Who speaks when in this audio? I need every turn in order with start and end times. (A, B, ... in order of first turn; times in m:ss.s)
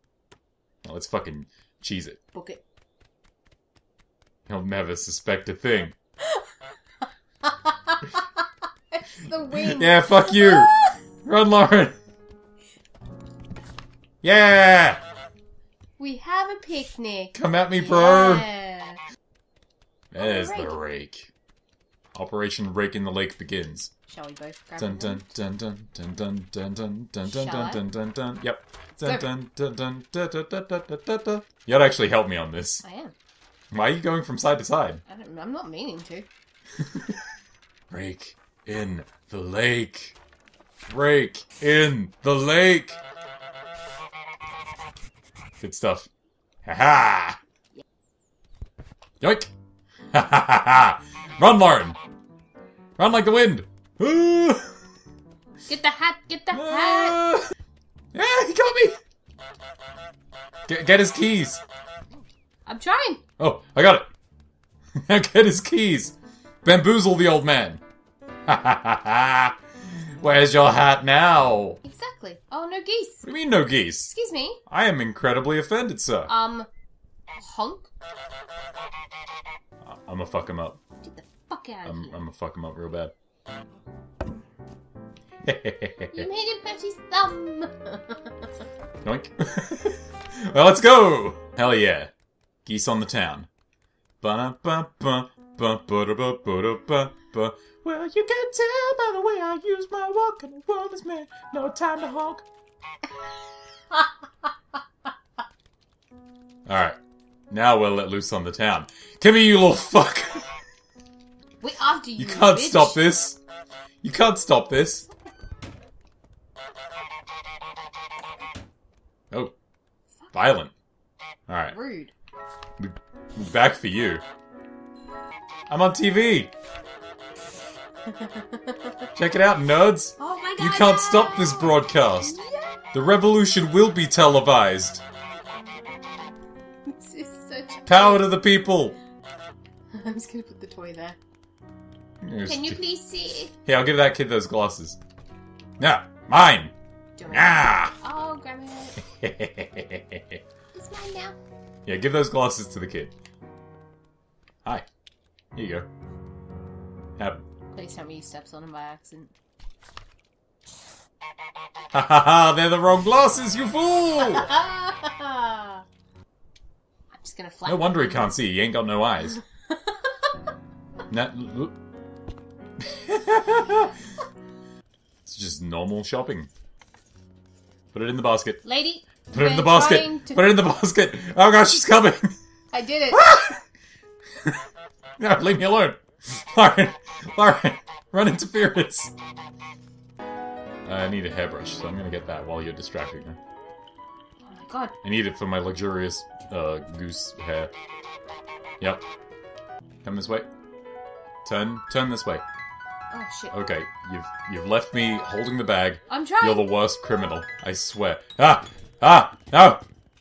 0:00.8-0:02.2 A
0:02.3-0:02.6 B
0:04.5-0:06.0 A
0:07.4-0:11.0 B
0:09.5-0:10.7 A
0:11.2-0:12.0 A
0:14.2-0:15.0 A
0:16.0-0:19.0 B
0:17.3-0:18.5 A
0:20.1-0:21.3 A
0:20.2-0:20.8 B
0:22.1-0:23.9 A
0:24.1-0:25.3 B
0:24.8-0:32.8 A
0:27.2-0:27.8 B
0:32.8-0:33.1 B
0:33.7-0:35.0 A
0:35.1-0:36.3 B
0:36.8-0:37.2 A
0:37.9-0:40.2 A
0:40.9-0:43.0 A
0:45.6-0:46.1 A
0:46.6-0:47.4 A
0:49.2-0:49.5 A
0:50.1-0:52.0 A
0:53.0-0:54.8 A
0:55.7-0:57.2 B
0:56.5-0:57.5 A
0:58.1-0:59.0 A
1:00.7-1:01.6 A
1:02.7-1:03.2 B
1:03.4-1:04.1 A
1:05.0-1:07.8 A
1:08.5-1:09.6 A
1:10.2-1:11.8 A
1:11.8-1:13.3 B
1:13.2-1:14.1 A
1:14.0-1:14.6 B
1:14.7-1:16.3 A
1:16.3-1:16.7 B
1:17.4-1:17.9 B
1:19.8-1:20.8 A
1:21.0-1:22.2 B
1:21.8-1:23.1 A
1:25.4-1:26.3 A
1:26.1-1:28.3 B
1:29.0-1:32.1 A
1:32.6-1:33.5 A
1:34.2-1:42.5 A
1:43.9-1:44.5 B
1:46.7-1:47.0 A
1:47.5-1:50.5 A
1:51.6-1:53.0 B
1:52.2-1:53.4 A
1:54.0-1:55.1 A
2:00.3-2:00.7 A
2:01.5-2:01.8 A
2:01.7-2:02.1 B
2:02.8-2:04.2 A
2:05.7-2:06.5 A
2:08.1-2:09.0 B
2:09.2-2:12.4 A
2:10.2-2:12.8 B
2:12.9-2:15.0 A
2:16.9-2:18.3 B
2:17.9-2:19.0 A
2:19.9-2:21.2 B
2:22.2-2:22.8 A
2:22.4-2:23.5 B
2:23.6-2:25.0 A
2:25.8-2:26.7 A
2:27.2-2:29.0 B
2:27.3-2:28.0 A
2:29.1-2:30.4 A
2:30.7-2:31.4 B
2:31.8-2:33.1 A
2:35.6-2:35.9 A
2:37.2-2:37.4 A
2:37.7-2:39.3 B
2:41.9-2:44.5 A
2:44.2-2:45.8 B
2:47.1-2:48.3 B
2:47.7-2:49.4 A
2:49.7-2:50.3 B
2:51.1-2:51.8 A
2:52.8-2:53.9 A
2:55.3-2:56.5 A
2:57.9-2:58.6 A
2:58.6-3:00.5 B
2:59.3-3:02.3 A
3:02.7-3:03.3 B
3:03.1-3:03.6 A
3:05.2-3:09.1 A
3:10.8-3:13.4 A
3:14.5-3:15.0 B
3:15.0-3:17.7 A
3:20.0-3:20.5 A
3:21.4-3:22.4 A
3:23.1-3:23.6 B
3:23.5-3:29.8 A
3:26.1-3:26.7 B